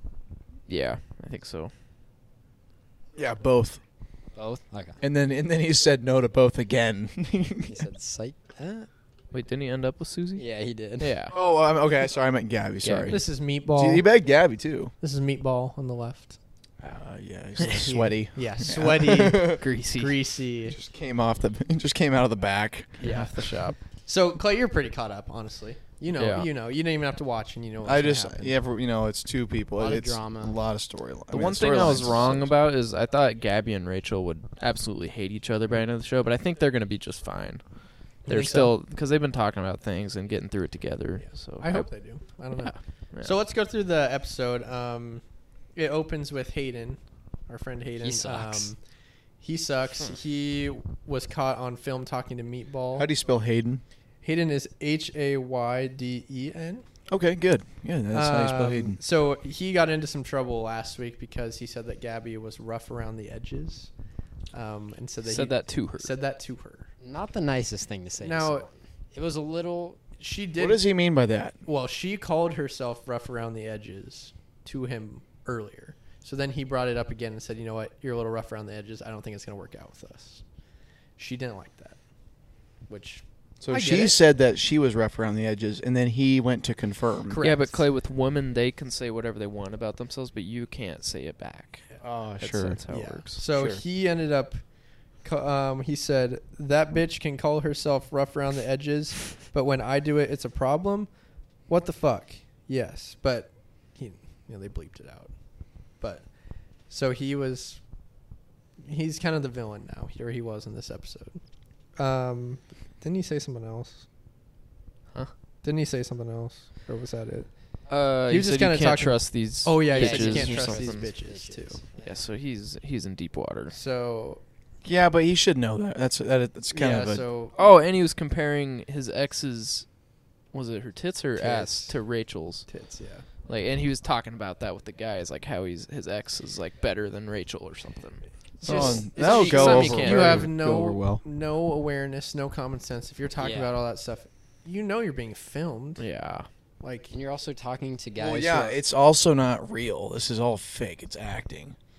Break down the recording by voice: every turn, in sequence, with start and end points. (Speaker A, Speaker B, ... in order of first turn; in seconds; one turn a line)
Speaker A: 0.7-1.7
Speaker B: 3.1-3.8
Speaker C: 4.3-5.0
Speaker B: 5.0-7.8
Speaker C: 7.6-8.9
Speaker A: 9.3-10.4
Speaker C: 10.3-11.1
Speaker A: 11.0-11.3
Speaker B: 11.3-14.9
Speaker A: 12.8-13.2
Speaker D: 13.1-14.1
Speaker D: 15.0-16.4
Speaker B: 16.8-19.6
Speaker D: 17.6-20.8
Speaker A: 19.6-20.2
Speaker B: 20.7-23.2
Speaker A: 23.0-23.8
Speaker D: 23.0-28.6
Speaker A: 26.1-26.5
Speaker B: 27.8-32.6
Speaker C: 29.8-30.6
Speaker A: 31.3-43.3
Speaker D: 38.2-38.7
Speaker D: 41.6-48.8
Speaker C: 48.0-48.7
Speaker D: 49.4-53.1
Speaker B: 52.9-53.8
Speaker D: 54.2-56.8
Speaker B: 57.1-59.0
Speaker D: 58.1-63.9
Speaker D: 64.5-66.9
Speaker A: 65.2-66.1
Speaker C: 67.0-70.0
Speaker D: 68.2-68.7
Speaker D: 70.2-70.8
Speaker B: 70.6-71.5
Speaker D: 71.6-80.4
Speaker D: 81.2-82.0
Speaker D: 82.8-84.2
Speaker B: 83.6-87.4
Speaker D: 87.3-87.8
Speaker A: 87.4-91.9
Speaker B: 92.0-92.8
Speaker A: 92.4-93.4
Speaker D: 92.9-94.6
Speaker B: 93.4-93.8
Speaker D: 95.2-101.1
Speaker D: 101.7-107.8
Speaker D: 108.8-111.4
Speaker D: 112.0-114.0
Speaker D: 115.6-117.5
Speaker A: 117.9-121.1
Speaker D: 118.3-121.8
Speaker C: 119.9-122.2
Speaker A: 122.0-123.8
Speaker D: 123.7-124.4
Speaker B: 124.8-127.2
Speaker D: 126.7-127.5
Speaker A: 127.5-129.9
Speaker A: 130.5-132.7
Speaker D: 131.3-131.9
Speaker D: 132.7-133.3
Speaker A: 133.5-140.5
Speaker B: 138.6-141.2
Speaker D: 138.6-146.0
Speaker C: 143.4-143.8
Speaker A: 146.0-146.5
Speaker D: 146.8-147.1
Speaker C: 147.1-148.8
Speaker B: 148.2-151.8